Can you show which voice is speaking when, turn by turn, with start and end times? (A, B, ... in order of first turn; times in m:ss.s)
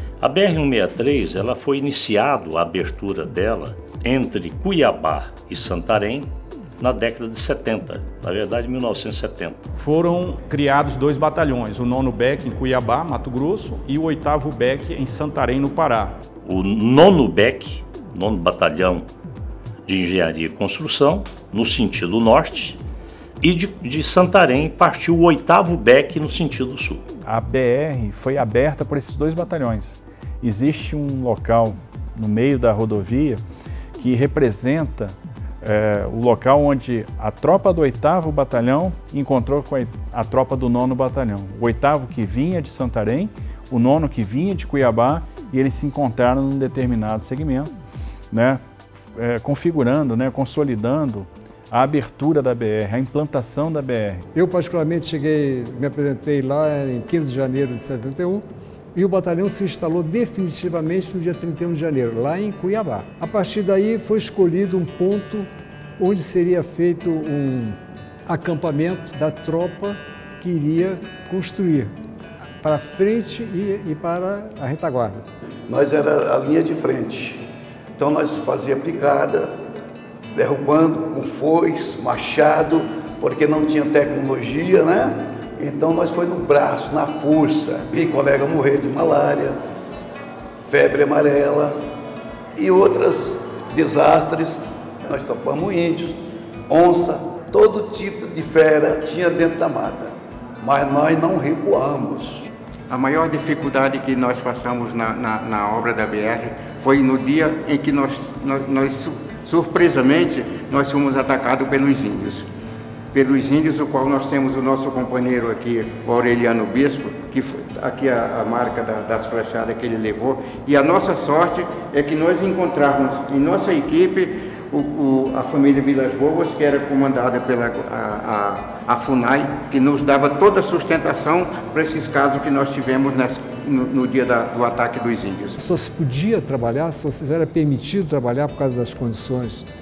0:00.2-0:09.7 A
0:09.8-0:16.2 B
0:16.4-0:19.1 A
0:19.9-0:22.8 A
0:23.4-0:27.0 A
0:27.2-0:33.4 C
0:34.0-0:47.7 C
0:48.3-0:48.6 C
0:49.1-0:54.3 C
0:54.3-0:58.4 D
0:58.9-1:05.5 D
1:06.0-1:11.9 D
1:12.6-1:15.2 D
1:15.7-1:17.4 E
1:18.0-1:19.5 E
1:20.3-1:29.6 E
1:30.6-1:31.7 E
1:32.6-1:42.5 E
1:42.9-1:52.5 F
1:53.1-2:15.6 F
2:15.6-2:19.6 D